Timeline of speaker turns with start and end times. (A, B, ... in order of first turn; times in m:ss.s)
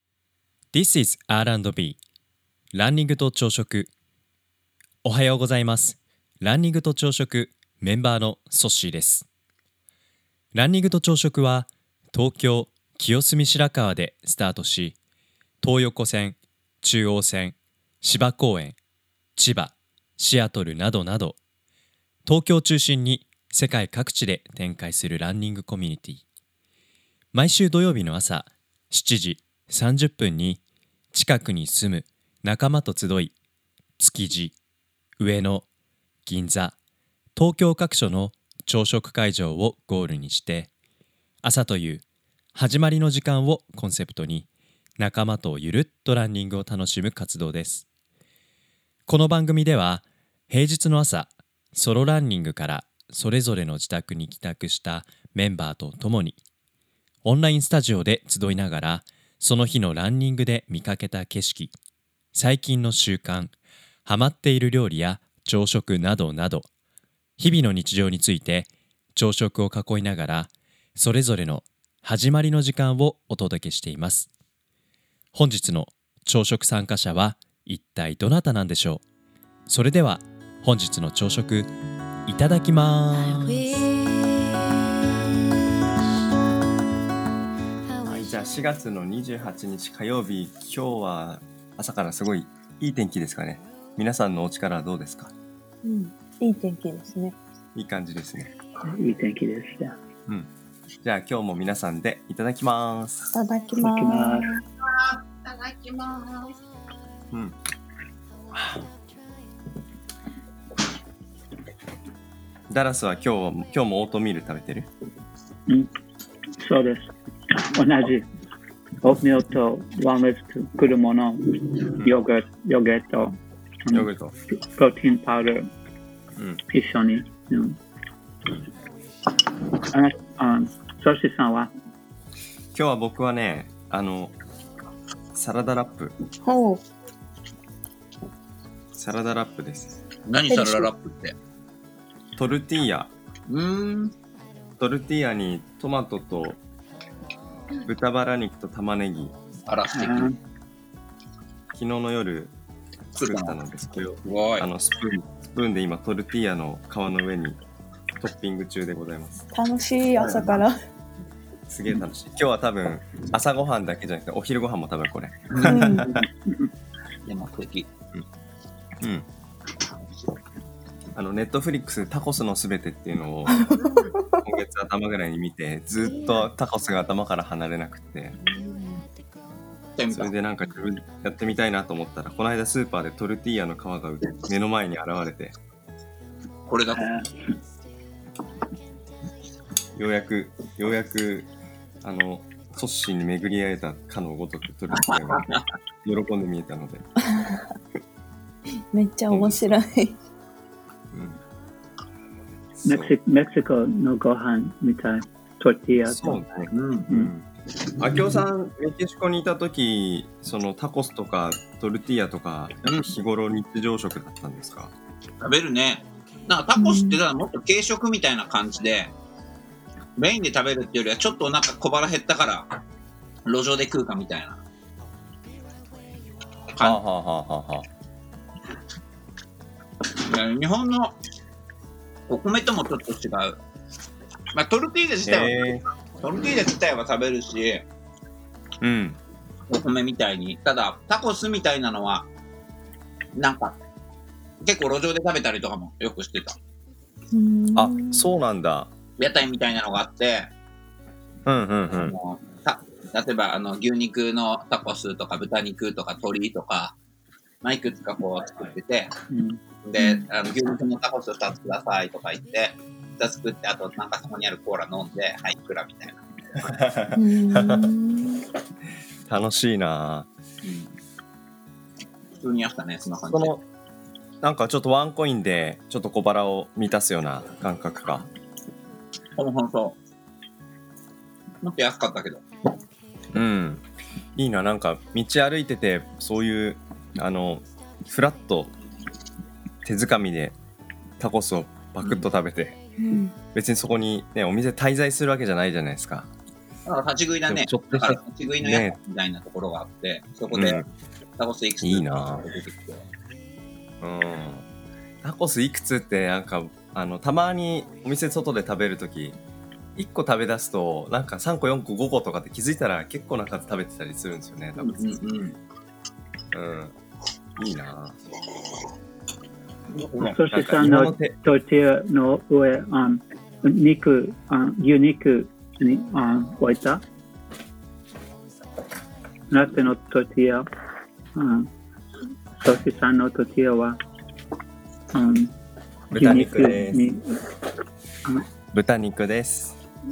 0:00.7-0:02.0 A
0:02.7-0:03.9 A
0:05.0-0:09.2 A
0:10.5-0:15.0 A
0:15.6-0:18.8 A
0:19.4-0:21.4 A
0:22.2-0:26.2 A
0:27.3-0:30.6 A
0:31.1-0:33.3 A
0:34.0-0:34.5 A
0:35.2-0:35.6 A
0:36.2-0:36.8 A
0:37.3-0:40.7 A
0:41.4-0:42.0 A
0:42.5-0:44.4 A
0:45.0-0:47.8 A
0:49.1-0:56.4 A
0:57.2-1:01.7 A
1:02.3-1:03.5 A
1:04.0-1:06.7 A
1:07.4-1:14.3 A
1:15.3-1:19.0 A
1:19.7-1:21.7 A
1:22.3-1:23.9 A
1:28.0-1:35.3 B
1:35.8-1:37.4 C
1:37.7-1:38.5 B
1:38.8-1:40.0 D
1:41.0-1:43.3 B
1:43.3-1:44.6 C
1:43.8-1:44.5 D
1:44.9-1:46.6 E
1:52.7-1:54.9 B
1:56.6-1:57.1 D
1:57.7-1:58.2 D
1:59.0-2:05.7 D
2:02.0-2:02.2 B
2:03.9-2:04.3 B
2:06.7-2:07.8 D
2:09.9-2:11.7 D
2:12.7-2:14.3 B
2:15.3-2:16.1 B
2:16.4-2:16.8 C
2:18.9-2:20.0 B
2:20.3-2:21.4 F
2:20.5-2:20.9 C
2:22.4-2:23.1 B
2:23.5-2:24.1 F
2:24.8-2:26.6 B
2:27.8-2:29.3 B
2:29.7-2:30.3 F
2:29.9-2:30.3 D
2:31.7-2:32.5 B
2:33.1-2:33.6 F
2:33.2-2:37.6 B
2:34.2-2:34.7 F
2:38.2-2:39.4 B
2:39.5-2:40.7 C
2:40.2-2:40.5 F
2:40.2-2:40.6 B
2:41.7-2:46.2 B
2:45.5-2:46.2 F
2:45.6-2:46.2 C
2:47.2-2:47.9 F
2:49.0-2:49.3 B
2:51.1-2:53.6 B
2:53.5-2:54.4 C
2:53.8-2:54.1 E
2:54.4-2:58.4 B
2:56.0-2:56.5 E
2:58.4-2:59.0 E
3:00.0-3:00.3 F
3:00.1-3:05.6 B
3:06.7-3:07.1 F
3:07.0-3:07.3 D
3:10.0-3:11.5 B
3:12.0-3:15.5 B
3:14.9-3:15.6 F
3:16.0-3:17.0 B
3:17.3-3:17.7 C
3:18.9-3:20.2 C
3:19.3-3:19.8 B
3:21.1-3:21.4 B
3:22.8-3:23.1 B
3:22.8-3:26.4 D
3:26.0-3:27.4 B
3:26.7-3:27.1 F
3:28.0-3:34.9 B
3:32.8-3:33.1 F
3:35.4-3:39.1 F
3:36.8-3:37.2 C
3:40.2-3:42.7 F
3:43.4-3:44.6 F
3:46.7-3:47.0 F
3:46.8-3:47.9 B
3:50.2-3:51.2 F
3:52.3-3:53.6 F
3:54.5-3:57.8 F
3:55.2-3:55.8 B
3:58.8-3:59.2 B
3:59.7-4:02.3 F
4:03.3-4:03.8 F
4:04.6-4:06.6 F
4:07.3-4:08.3 C
4:07.7-4:08.9 B
4:09.2-4:10.5 F
4:11.4-4:12.1 B
4:11.9-4:17.0 F
4:17.6-4:19.1 F
4:19.3-4:19.6 D
4:19.8-4:26.7 F
4:20.0-4:20.2 C
4:26.7-4:27.8 B
4:27.1-4:28.4 C
4:29.3-4:30.3 B
4:30.6-4:30.9 F
4:32.4-4:33.6 F
4:33.3-4:33.6 B
4:34.4-4:38.3 B
4:39.4-4:40.0 F
4:41.6-4:42.4 F
4:43.3-4:43.8 B
4:44.4-4:48.7 B
4:49.8-4:50.6 B
4:51.2-4:52.8 B
4:53.0-4:53.4 C
4:53.5-4:56.3 B
4:56.8-5:00.8 F
4:57.5-4:59.0 B
5:00.5-5:00.9 B
5:01.4-5:03.0 F
5:01.8-5:02.4 B
5:04.0-5:04.6 B
5:05.2-5:09.4 B
5:10.0-5:15.0 B
5:14.8-5:15.6 F
5:16.5-5:16.9 B
5:17.6-5:18.2 B
5:19.9-5:20.4 F
5:20.2-5:27.0 D
5:20.5-5:21.4 B
5:29.5-5:30.6 D
5:31.3-5:31.7 D
5:32.6-5:34.0 D
5:35.1-5:35.5 D
5:36.1-5:37.1 B
5:36.1-5:37.4 D
5:38.7-5:39.8 B